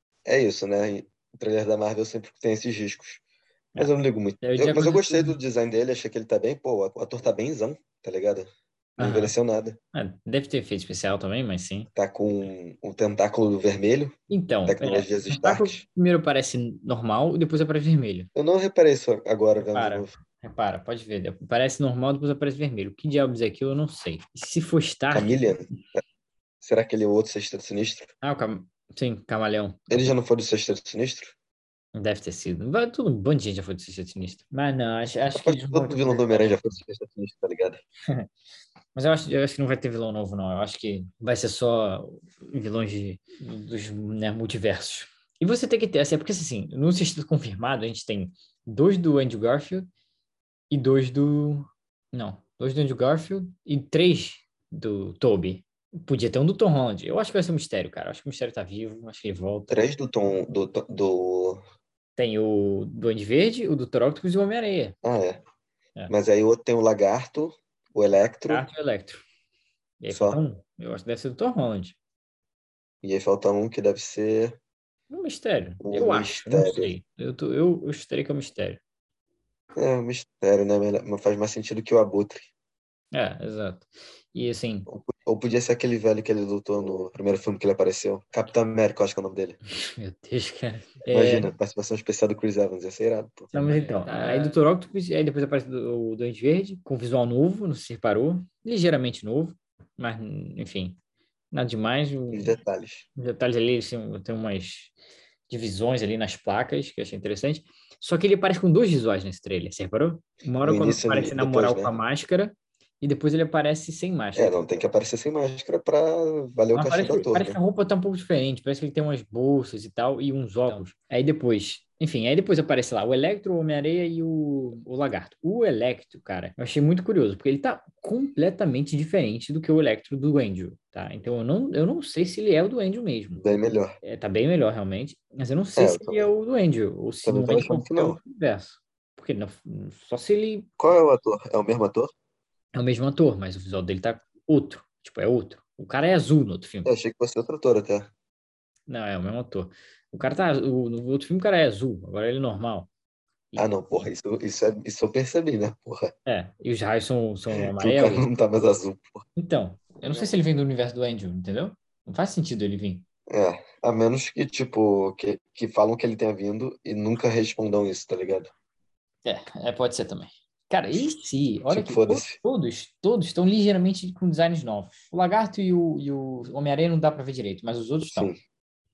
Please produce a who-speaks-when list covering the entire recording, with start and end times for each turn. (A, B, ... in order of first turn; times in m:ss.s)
0:00.3-0:03.2 A
0:03.8-0:09.8 A
0:04.4-0:05.4 B
0:09.0-0:09.4 B
0:09.9-0:11.9 B
0:11.9-0:15.8 A
0:14.3-0:18.3 B
0:18.4-0:20.1 A
0:19.6-0:25.4 B
0:25.1-0:25.7 A
0:26.6-0:28.1 A
0:28.2-0:30.1 B
0:29.9-0:31.4 A
0:32.0-0:36.6 B
0:35.3-0:37.8 A
0:39.0-0:49.9 B
0:50.7-0:59.9 B
0:59.7-1:01.6 A
1:02.2-1:05.0 B
1:05.0-1:05.4 A
1:06.1-1:08.7 A
1:08.5-1:09.2 B
1:10.0-1:12.0 B
1:10.1-1:10.4 A
1:13.0-1:14.6 A
1:15.1-1:18.8 B
1:15.8-1:16.9 A
1:19.8-1:22.5 A
1:23.1-1:24.9 B
1:24.9-1:29.6 A
1:29.9-1:31.5 B
1:31.1-1:34.6 A
1:33.5-1:41.0 B
1:41.5-1:42.6 B
1:42.3-1:43.1 A
1:43.2-1:44.9 B
1:45.5-1:54.6 B
1:50.6-1:52.0 A
1:54.4-1:57.6 A
1:56.7-2:13.5 B
2:13.4-2:14.0 A
2:14.0-2:20.7 B
2:15.8-2:16.3 A
2:17.2-2:18.2 A
2:20.8-2:22.1 A
2:22.8-2:26.9 B
2:26.8-2:28.1 A
2:28.9-2:32.9 B
2:33.6-2:36.1 A
2:36.3-2:38.2 B
2:37.5-2:39.2 A
2:39.4-2:43.0 B
2:40.0-2:40.3 A
2:43.3-2:48.5 A
2:49.2-2:58.3 B
2:51.7-2:52.4 A
2:58.1-2:58.4 A